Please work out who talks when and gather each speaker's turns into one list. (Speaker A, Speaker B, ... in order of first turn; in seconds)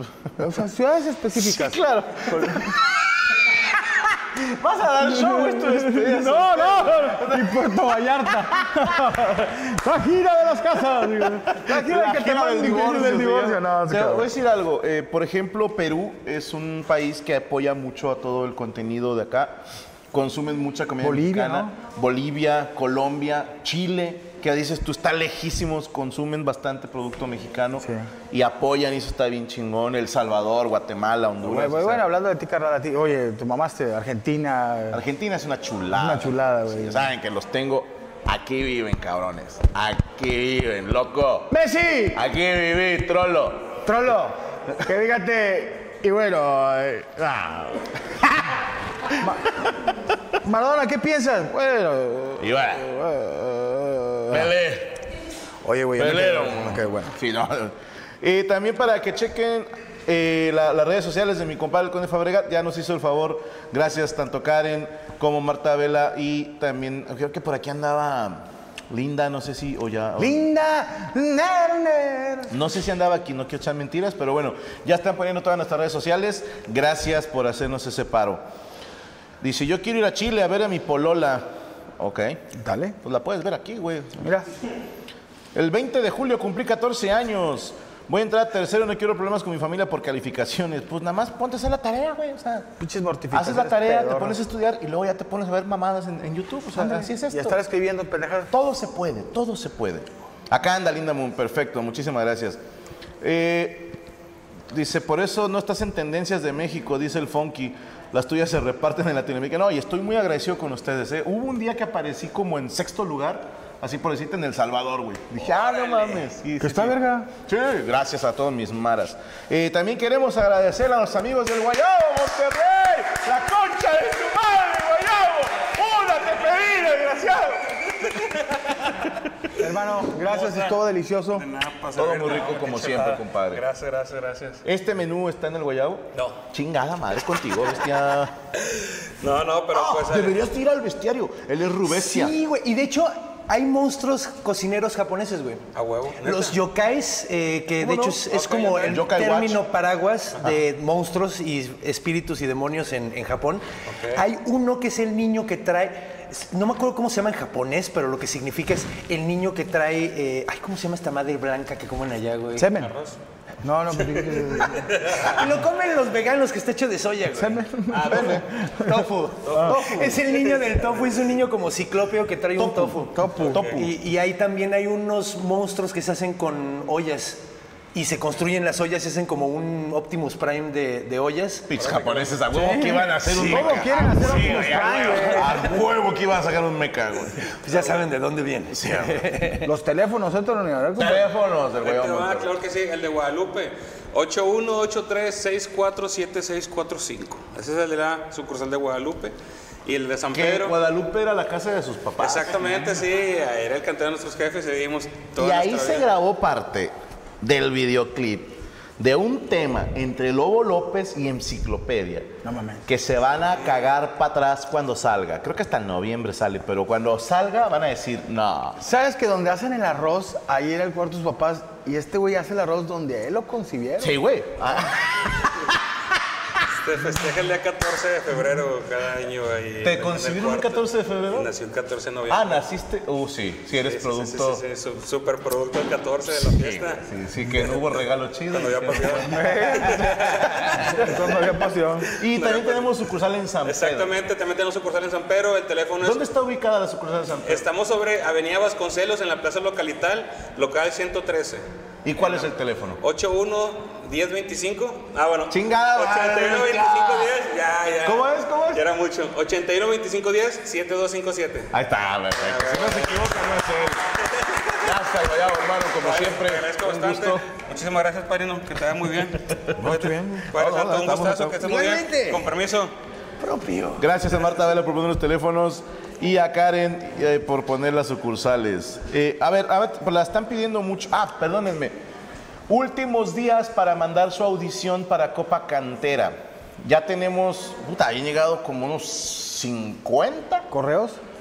Speaker A: 0.4-2.8, 5.0-14.3, 21.0-21.8, 27.8-28.1, 31.4-35.0, 35.9-37.0, 41.5-42.2, 43.8-47.3, 49.2-49.7, 50.4-54.5, 55.6-57.1, 70.2-72.5, 82.5-83.0, 84.2-84.5, 92.8-94.4, 96.7-98.5, 116.6-117.3, 129.6-131.5, 162.6-162.9, 163.6-164.9, 167.3-169.1, 173.1-173.7, 182.5-185.7, 189.6-191.3, 212.4-212.8, 218.8-224.2, 239.2-242.1, 290.7-291.2
Speaker B: 1.4-7.9, 11.5-32.0, 34.9-41.5, 42.1-43.8, 47.2-47.9, 52.4-52.9, 54.3-55.1, 56.0-70.4, 72.5-78.4, 79.4-81.5, 82.0-82.4, 83.0-84.2, 85.5-92.7, 93.3-97.6, 98.5-102.6, 103.2-104.0, 104.7-128.3, 131.9-133.6, 134.6-138.3, 139.7-142.3, 147.8-149.6, 169.6-170.2, 172.6-173.9, 181.7-187.6, 188.7-189.3, 191.0-192.5, 200.3-202.7, 205.4-212.3, 212.9-218.8, 224.0-225.6, 229.8-231.5, 232.3-234.6, 236.3-239.4, 242.2-244.2, 246.0-247.7, 252.1-253.0, 255.5-257.3, 258.0-258.9, 261.7-264.0, 264.7-267.4, 269.8-271.6, 274.0-281.9, 282.7-290.7
Speaker C: 115.5-116.3, 130.1-130.8, 131.4-134.6, 136.1-136.4, 138.7-140.4, 145.7-146.6, 148.3-149.1, 153.9-154.2, 162.7-163.2, 164.2-165.2, 167.9-168.4, 169.4-170.8, 173.4-173.8, 181.8-182.4, 191.8-199.3, 199.9-200.7, 202.2-206.1, 226.7-232.6, 233.7-237.1, 238.5-241.0, 242.2-242.9, 243.6-246.3, 247.4-251.6, 253.0-261.7, 262.4-263.2, 265.9-272.9
Speaker D: 141.8-145.7, 146.2-162.7, 164.9-177.4, 177.9-182.0, 183.2-185.5, 187.6-189.7, 271.6-272.4, 273.4-274.1